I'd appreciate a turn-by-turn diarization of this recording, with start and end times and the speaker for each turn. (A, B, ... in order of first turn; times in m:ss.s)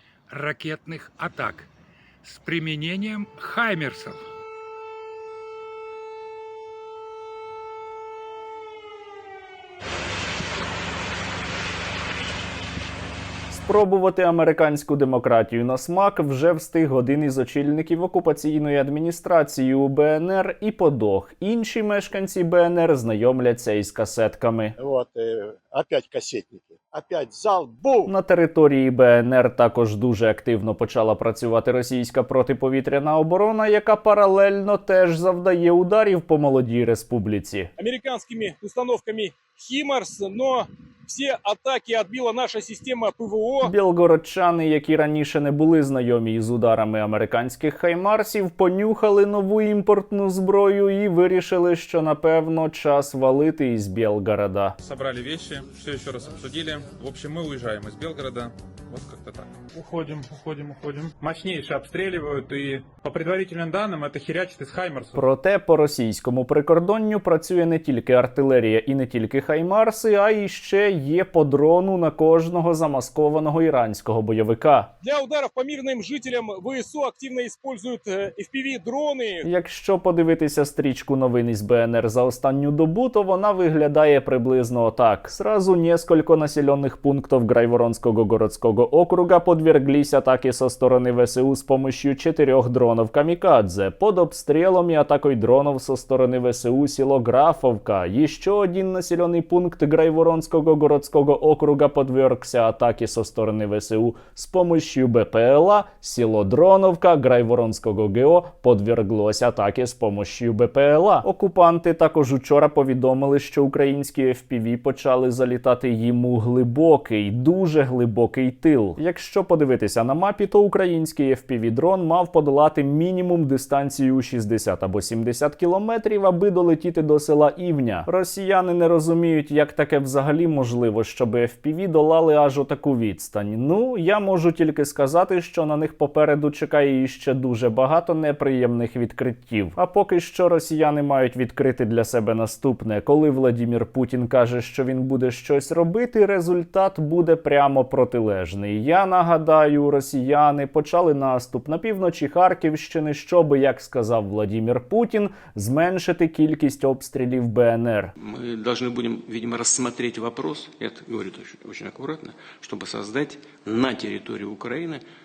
0:00.3-0:01.6 A
0:01.3-0:01.6 B
0:02.2-0:04.1 A
0:02.6-0:04.1 B
0:13.5-0:24.7 C
0:24.8-0:28.1 D
0:28.0-0:37.7 C
0:37.8-0:43.7 E
0:43.6-0:54.8 C
0:54.8-1:05.2 B
1:05.1-1:14.9 C
1:15.0-1:19.4 E
1:19.4-2:38.1 C
2:38.2-2:45.0 F